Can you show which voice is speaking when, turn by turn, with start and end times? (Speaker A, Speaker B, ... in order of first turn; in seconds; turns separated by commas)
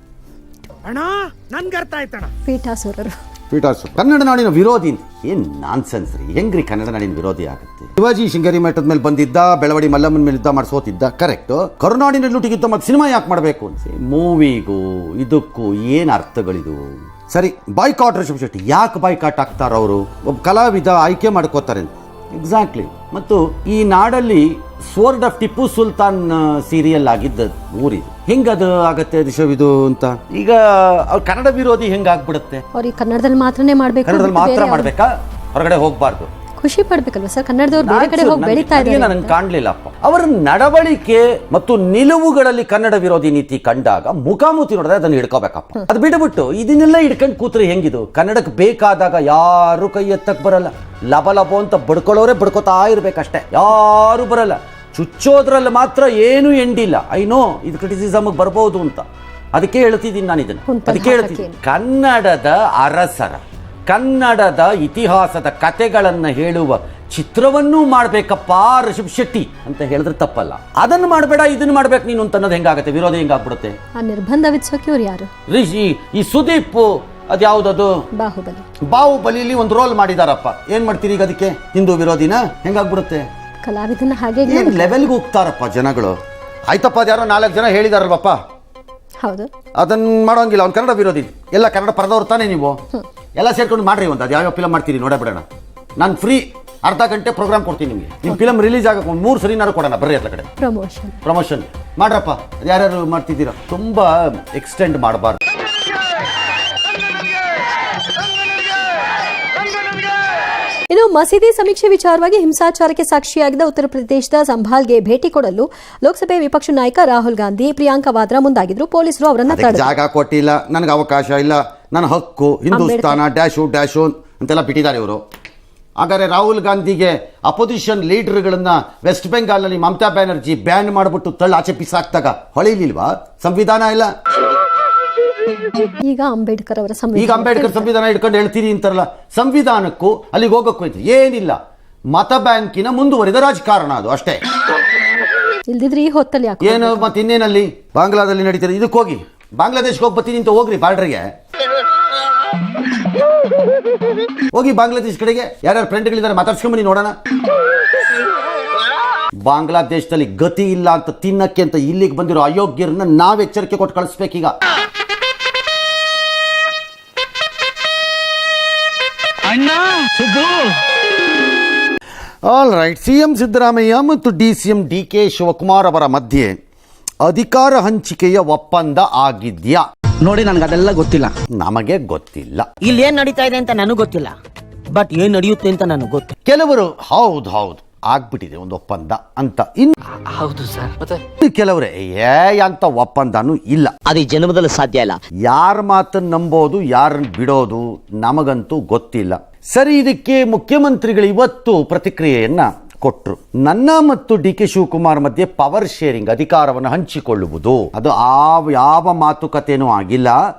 Speaker A: 2.4-3.1, Speaker B: 3.5-32.6, Speaker A: 32.7-34.9, Speaker B: 34.0-36.3, Speaker A: 36.6-39.3, Speaker B: 37.8-73.8, Speaker A: 60.7-61.6, Speaker A: 74.0-75.3, Speaker B: 75.5-78.0, Speaker A: 78.2-78.6, Speaker B: 78.9-83.2, Speaker A: 83.6-85.1, Speaker B: 84.5-86.2, Speaker B: 86.7-88.4, Speaker A: 89.2-89.5, Speaker B: 89.8-92.8, Speaker B: 93.3-95.5, Speaker B: 96.0-100.5, Speaker A: 100.6-101.2, Speaker B: 101.2-105.4, Speaker A: 110.9-119.9, Speaker B: 119.5-125.2, Speaker A: 122.7-123.2, Speaker B: 126.0-134.1, Speaker A: 135.8-137.9, Speaker B: 137.1-141.6, Speaker B: 142.1-144.4, Speaker A: 145.7-147.1, Speaker B: 146.6-151.3, Speaker B: 154.5-157.2, Speaker B: 159.4-164.5, Speaker B: 172.4-176.6, Speaker B: 177.2-179.8, Speaker C: 180.2-181.3, Speaker B: 181.5-182.7, Speaker C: 182.8-184.3, Speaker C: 184.9-186.3, Speaker B: 186.4-189.9, Speaker C: 190.3-191.0, Speaker B: 191.4-193.9, Speaker C: 194.1-195.2, Speaker B: 195.4-210.4